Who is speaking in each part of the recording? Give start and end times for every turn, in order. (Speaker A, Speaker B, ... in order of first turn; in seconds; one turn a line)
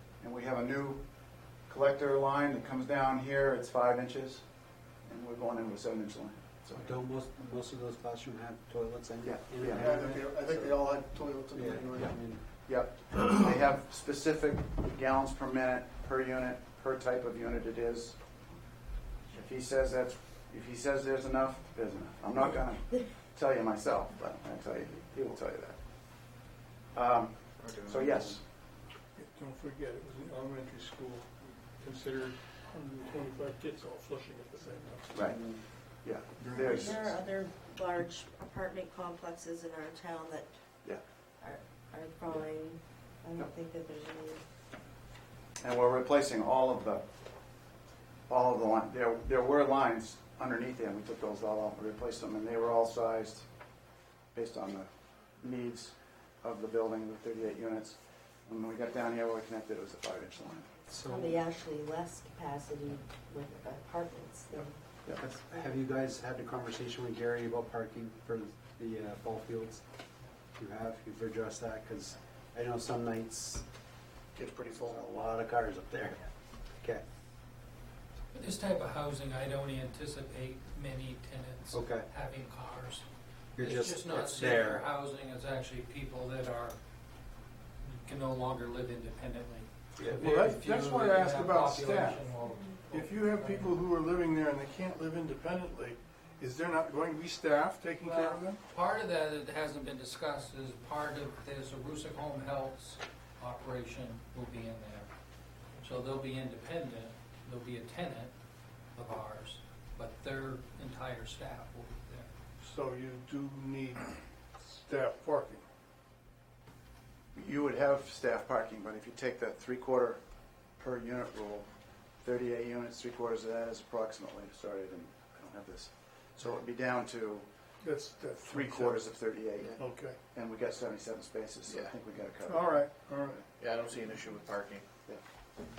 Speaker A: 0.2-1.0
Speaker A: 1.7-4.4
Speaker A: 5.1-7.0
Speaker B: 6.7-10.8
Speaker A: 9.2-9.9
Speaker C: 9.8-12.1
Speaker B: 11.5-12.4
Speaker A: 12.7-18.2
Speaker A: 19.3-25.8
Speaker A: 26.9-28.4
Speaker C: 29.2-35.2
Speaker A: 35.1-35.4
Speaker A: 36.0-37.0
Speaker D: 36.5-40.5
Speaker D: 41.4-44.4
Speaker A: 45.6-47.1
Speaker A: 48.3-53.5
Speaker A: 54.3-60.7
Speaker B: 60.9-61.4
Speaker D: 61.1-64.8
Speaker A: 64.5-65.2
Speaker B: 65.2-69.8
Speaker B: 70.6-73.7
Speaker E: 74.3-75.1
Speaker B: 74.9-76.3
Speaker F: 78.3-83.1
Speaker B: 81.7-82.1
Speaker B: 83.6-84.8
Speaker F: 83.6-86.8
Speaker F: 87.8-89.7
Speaker C: 90.1-92.2
Speaker F: 90.3-93.6
Speaker C: 92.9-98.6
Speaker F: 98.0-105.1
Speaker F: 105.8-108.3
Speaker F: 109.0-112.3
Speaker C: 112.6-115.7
Speaker A: 117.3-120.2
Speaker A: 120.8-121.7
Speaker A: 122.2-127.5
Speaker C: 127.8-129.1
Speaker A: 128.5-132.8
Speaker C: 129.8-130.2
Speaker E: 131.7-131.9
Speaker C: 132.4-133.5
Speaker E: 133.5-134.9